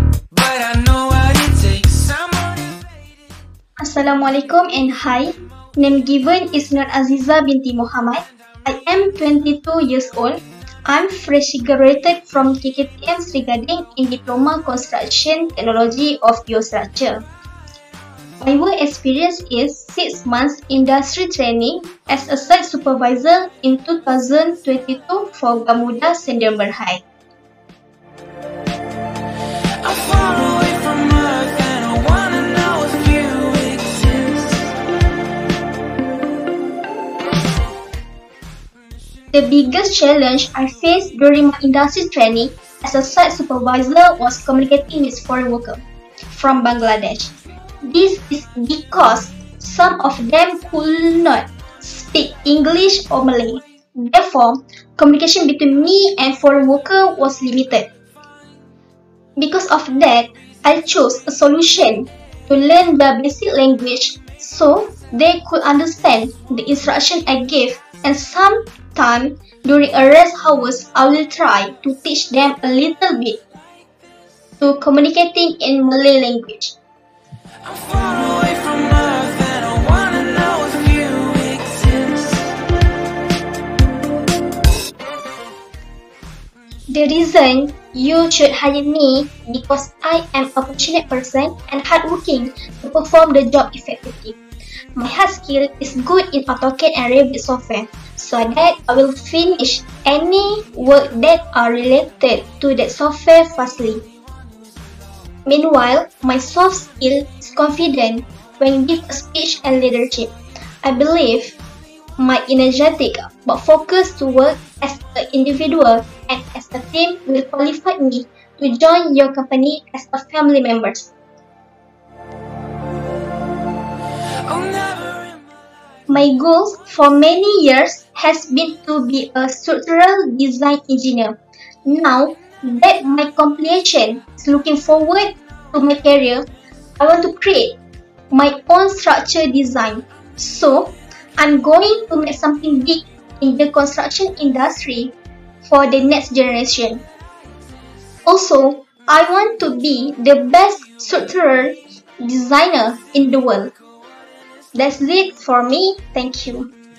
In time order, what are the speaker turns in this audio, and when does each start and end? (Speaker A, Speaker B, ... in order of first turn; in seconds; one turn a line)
Speaker A: 0.3-2.8
Speaker B: 3.8-17.2
Speaker B: 18.4-27.0
Speaker A: 29.8-34.7
Speaker B: 39.3-57.9
Speaker B: 59.4-73.4
Speaker B: 74.6-76.8
Speaker A: 77.6-82.5
Speaker B: 86.9-94.4
Speaker B: 95.0-104.0
Speaker B: 105.4-111.6
Speaker B: 112.2-121.1
Speaker A: 124.4-125.4
Speaker B: 126.1-136.5
Speaker B: 137.0-137.8
Speaker B: 138.3-147.0
Speaker B: 148.2-153.7
Speaker B: 154.7-156.7